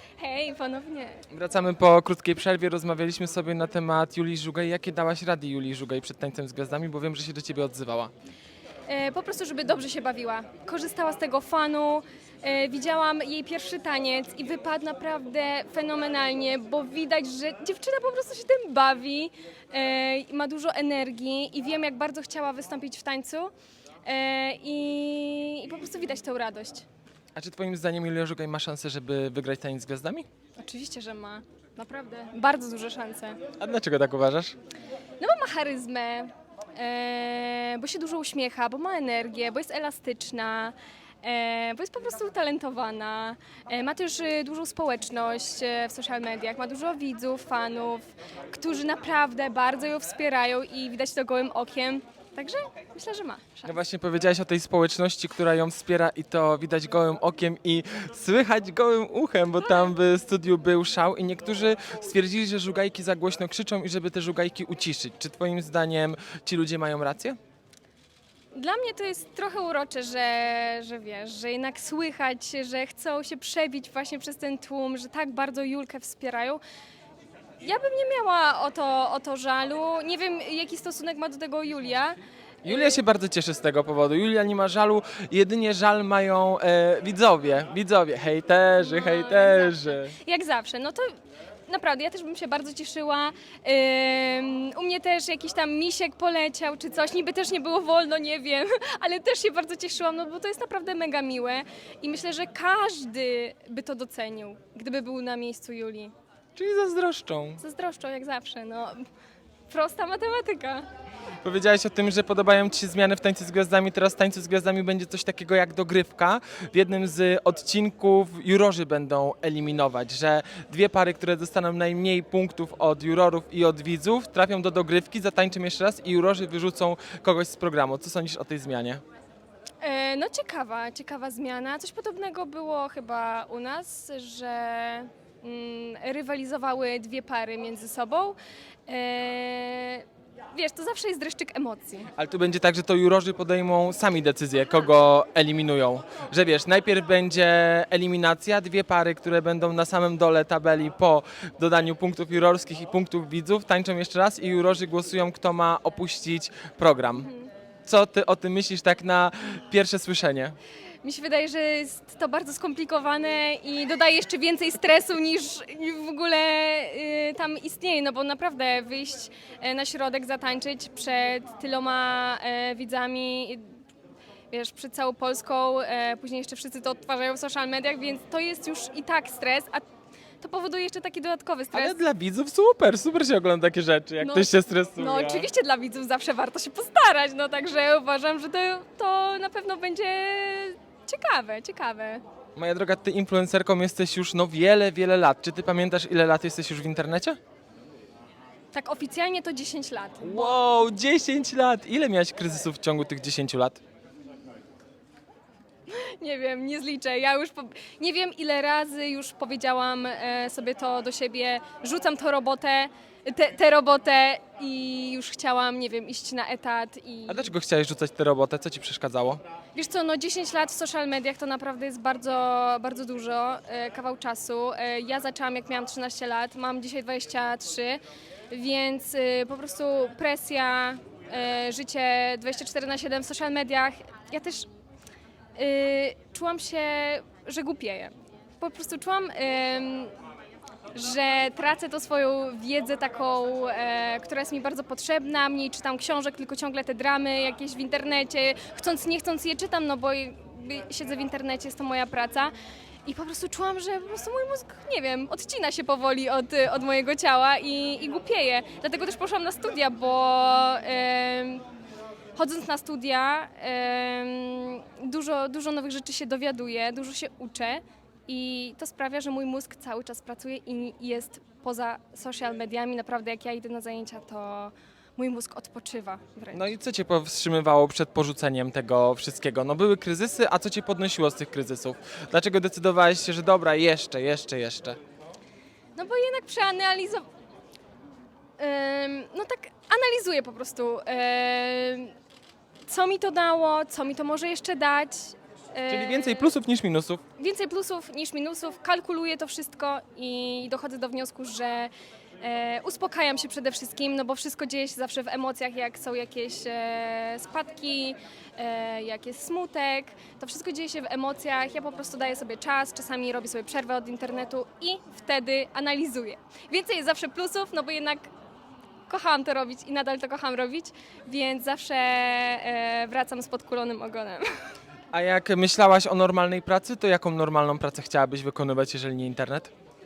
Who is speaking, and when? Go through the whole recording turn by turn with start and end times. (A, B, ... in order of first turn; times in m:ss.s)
0:00.2-0:01.2 A
0:01.3-0:08.1 B
0:08.9-0:23.5 A
0:24.0-0:26.8 A
0:27.4-0:30.3 B
0:30.6-0:33.4 A
0:33.6-0:34.6 B
0:35.2-0:53.8 A
0:53.6-1:07.4 B
1:08.5-1:16.6 A
1:17.6-1:23.0 A
1:22.6-1:30.1 B
1:28.8-1:31.1 A
1:31.7-1:46.1 A
1:46.6-1:47.6 B
1:47.6-1:49.0 A
1:49.7-1:50.9 A
1:51.4-2:09.0 B
2:09.8-2:22.1 A
2:22.2-2:37.3 B
2:37.2-2:37.5 A
2:37.8-2:40.6 B
2:41.0-2:53.6 A
2:54.5-2:59.8 A
3:00.4-3:02.0 A
3:01.7-3:05.5 B
3:04.2-3:12.2 A
3:12.6-3:17.4 B
3:18.7-3:20.6 A
3:20.2-3:23.8 B
3:25.9-3:37.5 A
3:37.3-3:39.4 B
3:39.7-3:54.7 A
3:55.6-4:00.1 A
4:00.9-4:12.5 A
4:13.1-4:21.6 A
4:22.4-4:36.7 A
4:36.5-4:45.0 B
4:46.0-4:47.2 A
4:48.6-4:52.1 A
4:52.9-4:56.6 A
4:55.9-4:57.2 B
4:57.4-5:18.3 A
5:19.1-5:24.4 A
5:25.1-5:29.7 B